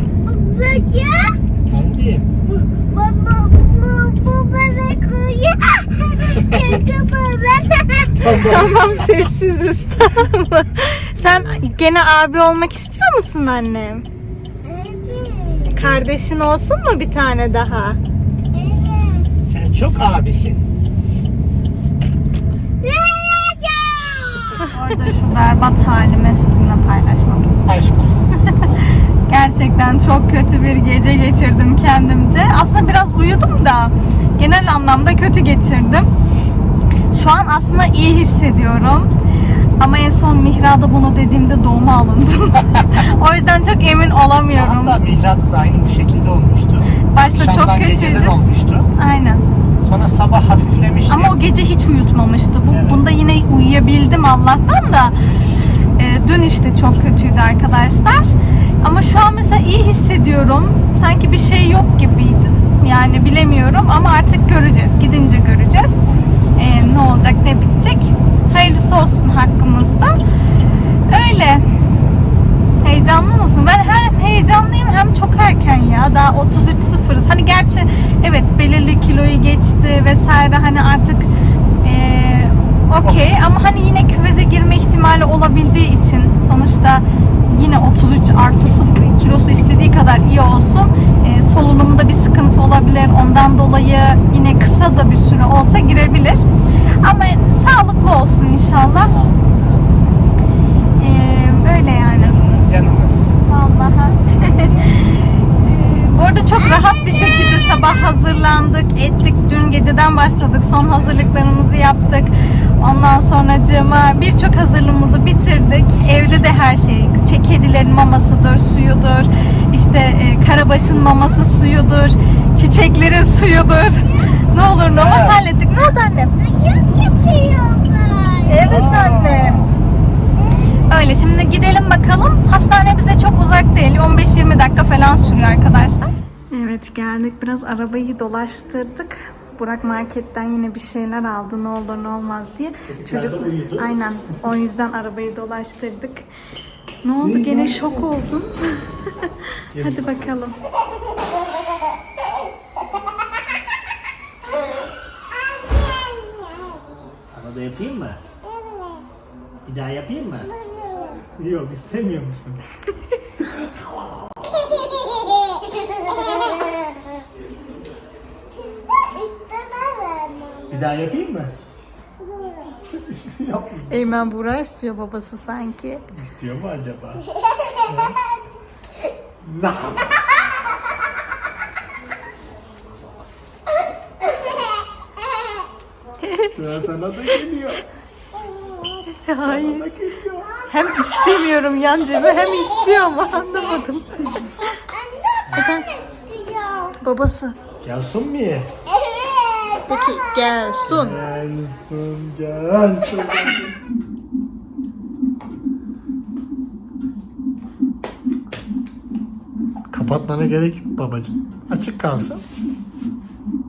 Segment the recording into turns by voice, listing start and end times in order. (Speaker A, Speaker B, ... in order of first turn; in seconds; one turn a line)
Speaker A: 0.2-1.4
Speaker B: 1.6-2.4
Speaker A: 2.5-9.0
Speaker B: 8.2-8.9
Speaker C: 8.3-14.1
Speaker B: 11.2-11.7
Speaker A: 14.6-15.8
Speaker C: 15.7-18.0
Speaker B: 15.8-16.1
Speaker A: 18.5-19.3
Speaker B: 19.4-20.6
Speaker A: 22.8-24.7
Speaker C: 24.7-27.8
Speaker B: 27.6-28.9
Speaker C: 29.3-36.1
Speaker C: 37.1-39.1
Speaker C: 39.8-45.0
Speaker B: 42.6-43.1
Speaker B: 44.5-48.9
Speaker C: 47.1-48.4
Speaker C: 49.0-49.4
Speaker B: 49.9-51.4
Speaker C: 51.1-55.2
Speaker B: 52.7-53.0
Speaker C: 56.0-66.0
Speaker B: 66.2-66.8
Speaker C: 66.6-70.2
Speaker C: 71.1-71.7
Speaker C: 72.8-81.3
Speaker C: 81.8-99.1
Speaker B: 83.0-83.4
Speaker B: 98.9-100.0
Speaker C: 101.0-102.3
Speaker B: 102.1-103.4
Speaker C: 103.5-126.3
Speaker A: 104.5-105.3
Speaker A: 124.0-124.5
Speaker B: 125.0-125.4
Speaker A: 126.4-128.9
Speaker C: 128.5-129.6
Speaker B: 128.6-129.7
Speaker C: 130.9-146.3
Speaker B: 142.9-143.9
Speaker C: 147.0-150.6
Speaker B: 147.2-148.1
Speaker B: 149.7-150.3
Speaker A: 155.3-157.1
Speaker B: 157.2-158.2
Speaker A: 158.4-159.1
Speaker B: 159.7-160.5
Speaker A: 160.4-161.2
Speaker B: 161.3-162.6
Speaker B: 163.4-164.1
Speaker A: 164.4-167.3
Speaker A: 168.6-170.9
Speaker B: 170.7-171.5
Speaker A: 172.2-172.8
Speaker B: 172.9-174.0
Speaker C: 173.9-176.0
Speaker B: 176.1-177.2
Speaker A: 177.3-178.3
Speaker B: 177.9-178.2
Speaker B: 179.4-180.2
Speaker A: 184.2-185.7
Speaker C: 186.2-186.9
Speaker B: 186.5-187.8
Speaker A: 188.3-189.2
Speaker C: 189.2-189.9
Speaker B: 189.4-190.5
Speaker A: 190.4-191.5
Speaker C: 190.7-194.1
Speaker A: 192.0-193.9
Speaker A: 194.6-197.0
Speaker C: 195.6-195.9
Speaker C: 197.0-197.6
Speaker B: 197.8-198.7
Speaker A: 198.9-200.8
Speaker C: 199.9-201.2
Speaker B: 200.9-203.7
Speaker B: 209.9-212.4